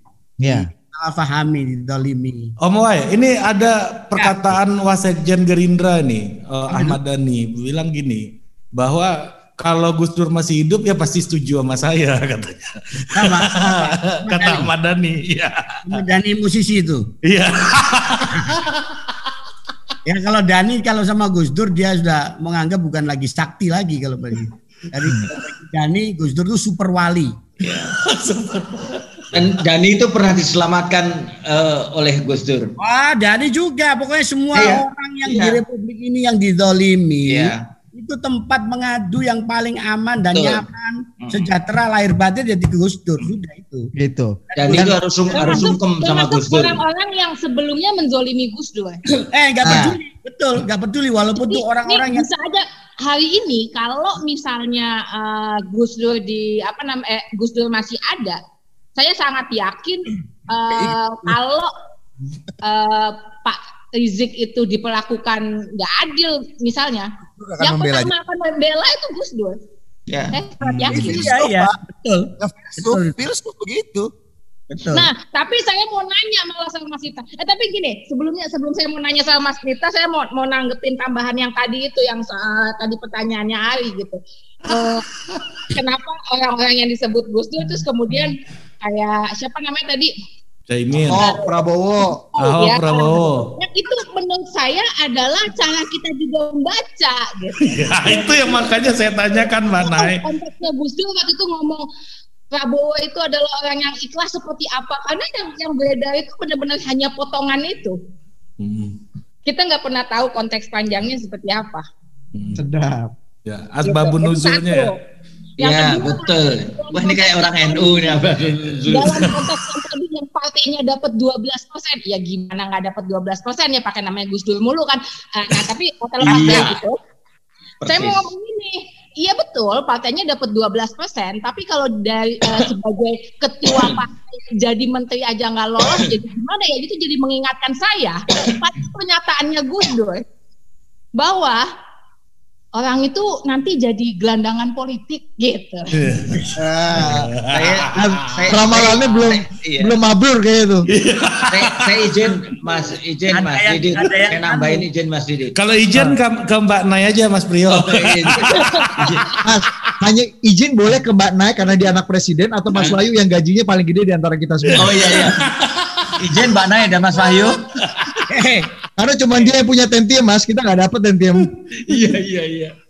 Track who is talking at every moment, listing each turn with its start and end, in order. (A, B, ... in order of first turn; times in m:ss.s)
0:00.4-0:00.7 A
0:00.5-0:02.5 B
0:02.6-0:16.0 C
0:13.2-0:14.7 B
0:15.9-0:17.0 B
0:17.3-0:18.8 C
0:20.1-0:27.3 B
0:27.6-0:29.5 C
0:29.3-0:32.7 D
0:32.8-0:43.9 B
0:34.6-0:35.6 D
0:37.3-0:37.6 D
0:40.4-0:40.6 D
0:41.2-0:41.5 D
0:44.0-0:44.8 A
0:44.5-0:45.5 B
0:44.6-0:46.8 D
0:45.3-0:49.0 E
0:49.3-0:52.3 B
0:49.6-0:50.0 A
0:51.4-0:58.4 E
0:59.0-1:01.7 E
1:00.7-1:01.4 F
1:02.6-1:09.6 E
1:07.4-1:08.1 F
1:10.1-1:10.4 D
1:10.3-1:11.2 E
1:10.6-1:10.9 C
1:10.9-1:13.1 B
1:10.9-1:11.7 F
1:12.4-1:14.1 F
1:14.7-1:15.1 B
1:14.9-1:25.0 E
1:25.7-1:30.1 E
1:30.7-1:31.3 C
1:30.9-1:32.2 A
1:31.1-1:31.5 E
1:32.4-1:38.8 E
1:32.4-1:33.5 C
1:37.6-1:40.2 C
1:39.4-1:41.9 E
1:42.5-1:48.0 E
1:48.6-1:49.0 C
1:49.5-1:51.8 E
1:52.4-1:52.6 C
1:52.6-1:53.1 A
1:53.5-1:54.9 C
1:53.8-1:54.9 E
1:55.6-1:59.3 D
1:55.6-1:58.2 E
1:58.9-2:07.0 E
1:59.2-1:59.4 C
2:06.2-2:06.8 D
2:07.8-2:08.2 D
2:07.9-2:20.2 E
2:13.7-2:14.0 D
2:21.2-2:21.7 E
2:22.8-2:25.9 E
2:26.0-2:28.5 C
2:26.6-2:27.2 A
2:27.5-2:29.9 D
2:27.9-2:30.9 A
2:30.9-2:32.3 C
2:31.5-2:35.6 D
2:33.3-2:34.9 B
2:35.5-2:39.5 C
2:37.7-2:39.2 D
2:39.4-2:45.2 A
2:44.7-2:46.5 C
2:44.7-2:45.4 D
2:46.2-2:47.6 D
2:47.2-2:48.2 C
2:48.3-2:48.7 B
2:49.0-2:51.5 A
2:51.9-2:52.7 D